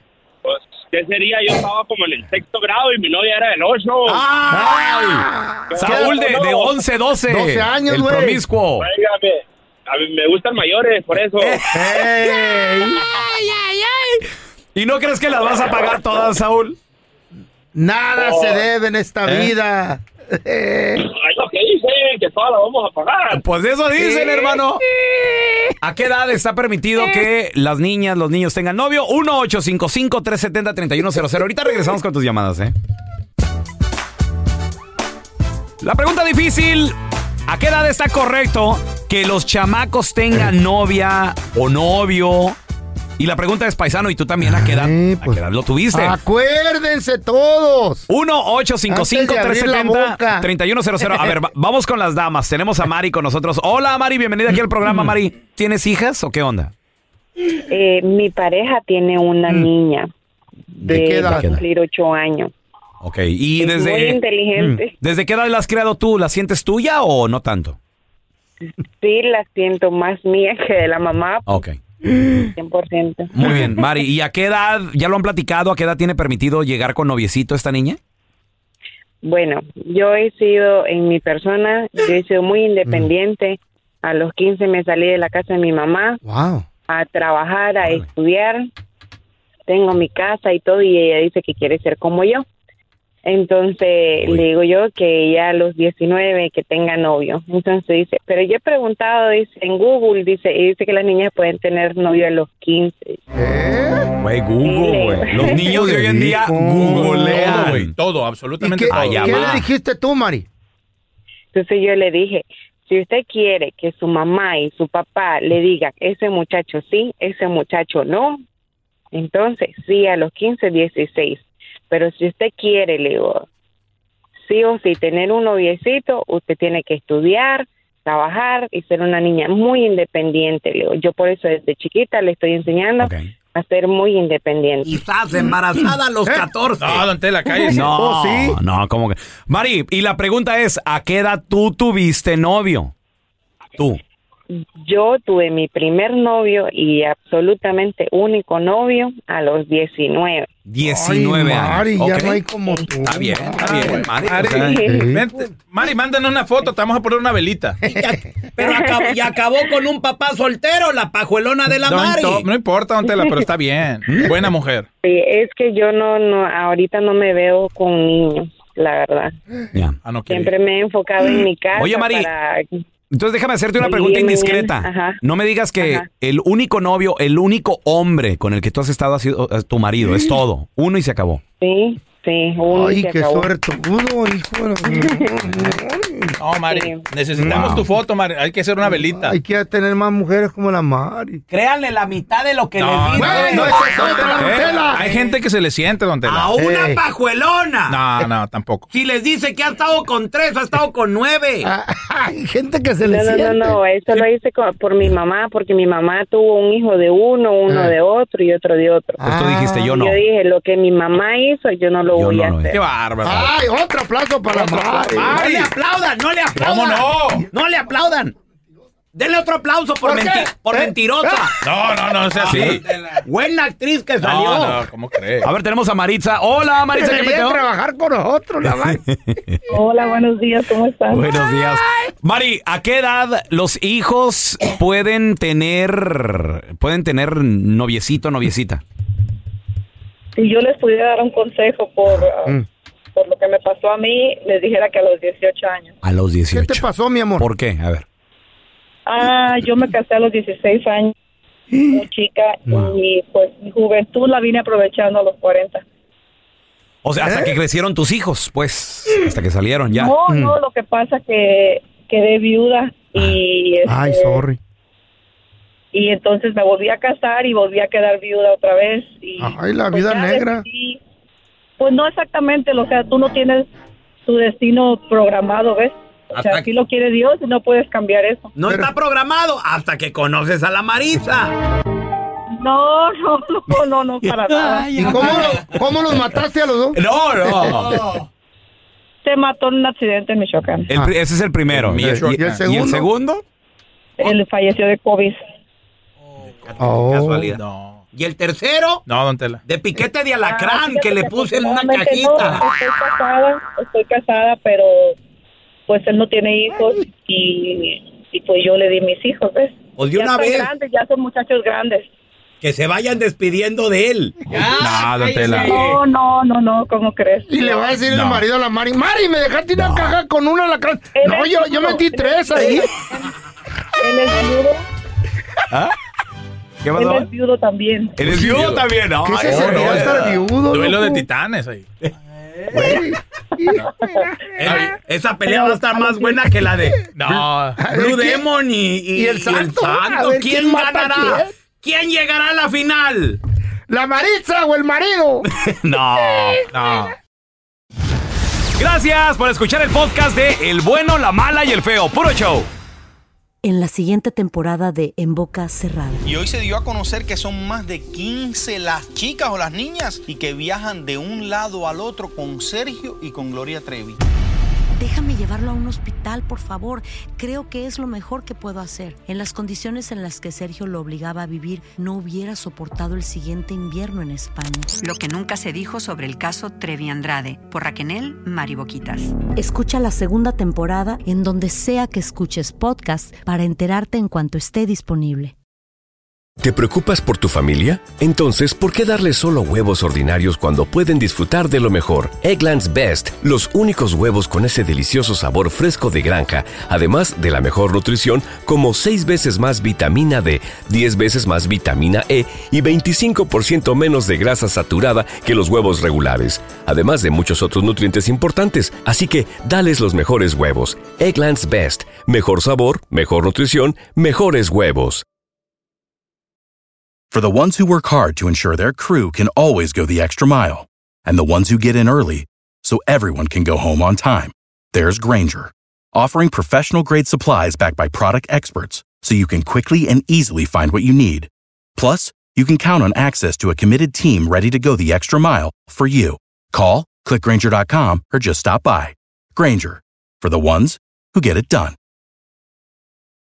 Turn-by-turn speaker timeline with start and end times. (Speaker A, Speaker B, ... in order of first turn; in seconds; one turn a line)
Speaker A: 0.5-4.2
Speaker B: 4.1-8.9
Speaker C: 4.5-6.2
Speaker A: 5.7-6.8
Speaker C: 7.3-8.4
Speaker A: 8.8-11.7
Speaker B: 11.4-12.1
Speaker C: 11.7-13.0
Speaker B: 13.4-14.1
Speaker B: 14.7-16.8
Speaker C: 17.7-21.1
Speaker A: 18.2-18.6
Speaker B: 19.2-19.5
Speaker A: 21.0-23.4
Speaker B: 23.3-24.8
Speaker C: 24.0-25.7
Speaker B: 25.8-32.7
Speaker B: 35.8-37.0
Speaker B: 37.5-42.6
Speaker B: 43.2-46.2
Speaker C: 44.4-48.1
Speaker B: 48.1-56.7
Speaker C: 48.9-50.5
Speaker D: 57.7-60.1
Speaker C: 60.8-61.5
Speaker D: 60.9-62.5
Speaker B: 61.3-61.6
Speaker B: 63.0-64.2
Speaker D: 63.6-64.9
Speaker B: 65.0-67.8
Speaker D: 69.0-71.6
Speaker B: 71.5-71.8
Speaker C: 72.2-72.5
Speaker D: 72.5-73.6
Speaker B: 73.3-78.0
Speaker C: 73.4-73.7
Speaker D: 79.2-86.2
Speaker C: 86.2-86.7
Speaker D: 86.9-88.6
Speaker D: 89.7-92.4
Speaker D: 93.2-103.2
Speaker B: 94.2-94.4
Speaker C: 103.3-104.1
Speaker B: 104.2-107.9
Speaker D: 104.6-105.8
Speaker C: 105.4-107.9
Speaker E: 107.2-109.6
Speaker C: 108.6-110.5
Speaker B: 108.9-109.6
Speaker D: 111.5-118.4
Speaker D: 119.1-123.4
Speaker D: 124.4-134.9
Speaker B: 133.0-133.3
Speaker F: 134.8-137.1
Speaker E: 136.8-137.9
Speaker C: 137.5-138.6
Speaker B: 137.7-142.9
Speaker D: 144.8-150.5
Speaker B: 150.7-152.4
Speaker C: 150.8-155.5
Speaker B: 153.1-154.8
Speaker E: 153.6-157.8
Speaker D: 154.6-155.1
Speaker F: 157.8-162.5
Speaker E: 161.8-164.9
Speaker B: 164.1-164.3
Speaker D: 165.0-169.3
Speaker E: 170.0-170.5
Speaker D: 170.3-172.7
Speaker B: 171.8-172.3
Speaker B: 173.1-181.4
Speaker D: 173.8-175.2
Speaker D: 175.8-176.1
Speaker D: 181.6-183.5
Speaker C: 182.7-186.3
Speaker D: 184.8-185.4
Speaker E: 186.4-189.4
Speaker D: 186.7-187.0
Speaker C: 187.4-187.9
Speaker B: 187.4-187.8
Speaker C: 188.9-191.4
Speaker F: 191.5-195.1
Speaker E: 192.8-196.5
Speaker C: 193.1-195.1
Speaker B: 194.2-194.8
Speaker F: 196.2-198.0
Speaker C: 196.6-197.0
Speaker E: 197.9-198.9
Speaker F: 198.9-201.7
Speaker C: 201.6-203.8
Speaker D: 203.0-209.2
Speaker C: 207.7-207.9
Speaker C: 209.2-209.9
Speaker B: 209.2-210.2
Speaker D: 209.9-212.8
Speaker B: 212.1-212.8
Speaker E: 212.7-213.5
Speaker C: 213.2-215.5
Speaker E: 214.5-215.7
Speaker F: 215.2-218.3
Speaker E: 216.6-217.4
Speaker F: 219.1-221.6
Speaker C: 220.0-221.5
Speaker E: 221.6-222.9
Speaker B: 222.4-222.8
Speaker F: 222.5-224.8
Speaker E: 224.2-225.5
Speaker B: 225.4-227.6
Speaker C: 226.9-229.0
Speaker B: 228.6-229.6
Speaker G: 229.7-231.3
Speaker B: 231.1-238.8
Speaker G: 240.3-242.6
Speaker G: 243.2-245.9
Speaker B: 246.0-246.8
Speaker C: 246.5-247.4
Speaker B: 247.4-248.0
Speaker G: 249.1-251.1
Speaker C: 251.7-252.0
Speaker G: 251.9-255.8
Speaker C: 252.7-252.9
Speaker B: 257.0-260.2
Speaker C: 257.2-257.5
Speaker G: 260.0-264.4
Speaker C: 260.3-260.5
Speaker C: 263.9-264.6
Speaker G: 265.9-271.0
Speaker C: 269.4-270.6
Speaker G: 271.8-273.7
Speaker G: 274.2-278.5
Speaker F: 276.3-276.7
Speaker F: 278.5-281.6
Speaker C: 278.6-278.9
Speaker G: 282.6-284.9
Speaker B: 284.5-285.4
Speaker F: 284.7-285.8
Speaker C: 284.9-287.8
Speaker B: 287.0-288.1
Speaker F: 287.0-288.1
Speaker G: 289.2-290.9
Speaker B: 290.9-293.4
Speaker E: 291.7-292.6
Speaker C: 291.9-293.1
Speaker G: 294.2-295.4
Speaker F: 296.4-297.6
Speaker C: 296.8-297.5
Speaker E: 297.5-298.0
Speaker F: 298.1-299.0
Speaker E: 299.1-299.6
Speaker F: 299.6-302.6
Speaker G: 300.4-305.2
Speaker G: 305.9-312.1
Speaker F: 310.0-310.7
Speaker F: 312.6-316.0
Speaker E: 314.8-315.9
Speaker G: 315.6-318.0
Speaker C: 317.5-322.9
Speaker E: 318.0-318.4
Speaker B: 319.8-320.1
Speaker G: 321.1-323.3
Speaker G: 324.0-324.9
Speaker B: 326.8-327.3
Speaker G: 326.9-328.2
Speaker B: 328.2-330.3
Speaker E: 328.3-331.9
Speaker C: 329.2-331.2
Speaker C: 332.7-334.8
Speaker F: 334.6-337.0
Speaker E: 334.6-334.9
Speaker G: 335.7-336.1
Speaker E: 337.1-337.8
Speaker C: 337.8-338.5
Speaker F: 337.9-343.4
Speaker C: 339.1-341.5
Speaker C: 343.9-345.5
Speaker B: 345.5-346.6
Speaker C: 346.4-347.1
Speaker E: 346.7-347.1
Speaker B: 348.8-352.7
Speaker H: 353.6-356.2
Speaker I: 356.2-364.2
Speaker H: 365.0-374.9
Speaker J: 375.0-379.4
Speaker H: 379.5-385.5
Speaker K: 386.6-415.2
Speaker L: 417.3-441.9